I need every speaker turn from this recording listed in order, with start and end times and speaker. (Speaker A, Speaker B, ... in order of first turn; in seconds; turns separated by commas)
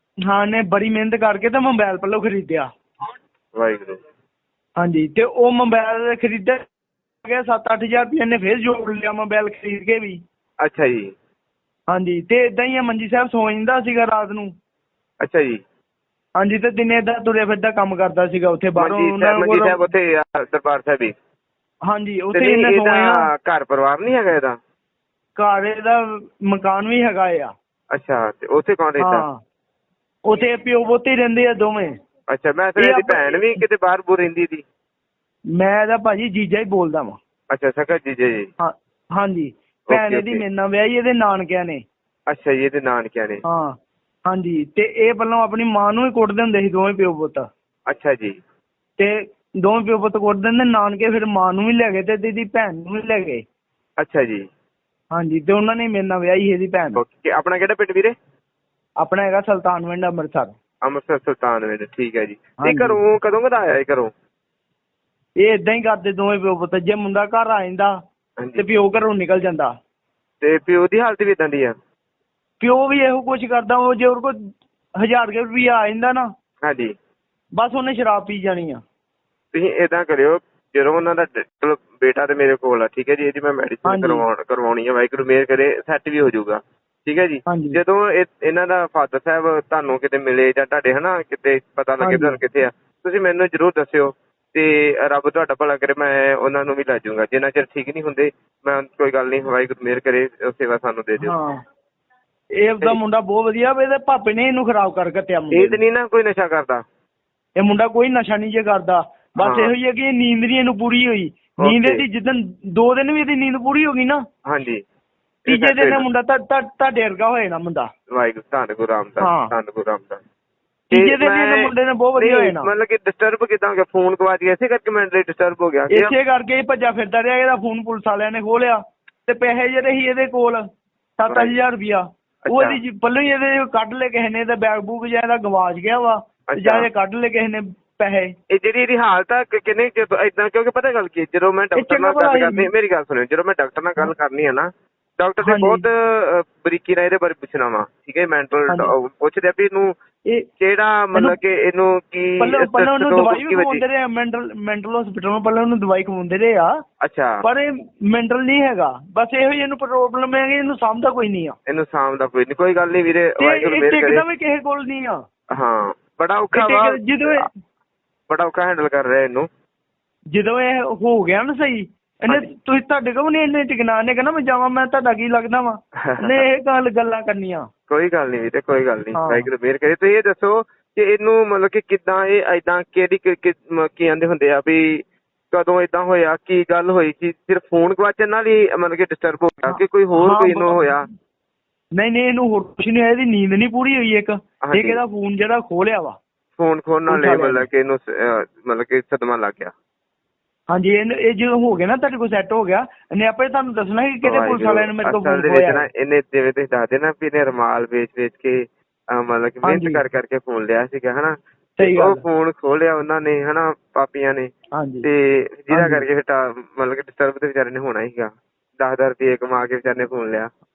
Speaker A: 0.2-2.7, Speaker B: 3.5-4.0, Speaker A: 4.8-6.6, Speaker A: 7.2-10.2, Speaker B: 10.6-11.2, Speaker A: 11.9-14.5, Speaker B: 15.2-15.6, Speaker A: 16.4-19.8, Speaker B: 18.8-21.1, Speaker A: 21.9-23.2, Speaker B: 22.3-24.6, Speaker A: 25.4-27.5, Speaker B: 27.9-29.3, Speaker A: 29.0-29.4, Speaker A: 30.3-32.0, Speaker B: 32.3-34.6, Speaker A: 32.8-33.6, Speaker A: 35.5-37.2, Speaker B: 37.5-38.5, Speaker A: 38.6-41.8, Speaker B: 39.9-40.4, Speaker B: 42.3-43.4, Speaker A: 43.5-43.7, Speaker A: 44.3-47.5, Speaker B: 47.9-48.4, Speaker A: 49.0-53.4, Speaker B: 54.0-54.5, Speaker A: 55.1-57.0, Speaker B: 57.0-58.2, Speaker A: 59.0-60.5, Speaker B: 60.8-64.1, Speaker A: 62.6-63.0, Speaker A: 65.4-68.0, Speaker B: 68.4-68.7, Speaker A: 68.6-69.7, Speaker B: 70.4-71.8, Speaker A: 72.6-74.4, Speaker A: 75.0-76.3, Speaker B: 76.6-76.9, Speaker A: 77.5-78.8, Speaker B: 79.5-101.4, Speaker A: 83.8-84.2, Speaker A: 87.5-87.8, Speaker A: 92.0-92.4, Speaker A: 101.2-101.6, Speaker A: 102.6-105.8, Speaker B: 105.5-106.8, Speaker A: 107.6-114.2, Speaker B: 109.4-109.7, Speaker B: 111.6-112.0, Speaker B: 114.5-114.8, Speaker A: 115.5-117.9, Speaker B: 115.5-116.1, Speaker B: 118.1-120.2, Speaker A: 119.2-119.5, Speaker A: 120.9-122.7, Speaker B: 120.9-126.1, Speaker A: 125.9-130.6, Speaker A: 131.2-138.3, Speaker B: 131.3-131.6, Speaker B: 132.4-132.8, Speaker B: 136.5-136.9, Speaker B: 138.5-149.9, Speaker A: 141.8-142.7, Speaker A: 145.4-145.8, Speaker B: 150.6-153.8, Speaker A: 152.4-156.7, Speaker B: 157.0-157.4, Speaker A: 157.4-161.6, Speaker B: 161.7-164.2, Speaker A: 163.4-165.2, Speaker B: 165.5-167.5, Speaker A: 166.5-167.5, Speaker B: 168.3-169.5, Speaker A: 170.3-177.7, Speaker B: 176.0-176.4, Speaker B: 177.9-191.1, Speaker A: 179.2-179.5, Speaker A: 189.7-191.0, Speaker A: 191.9-196.2, Speaker B: 194.6-195.0, Speaker B: 196.6-199.7, Speaker A: 197.1-197.6, Speaker A: 200.7-205.8, Speaker B: 204.2-214.5, Speaker A: 209.6-210.0, Speaker A: 211.8-212.2, Speaker A: 214.7-215.1, Speaker B: 215.0-220.5, Speaker A: 215.7-216.0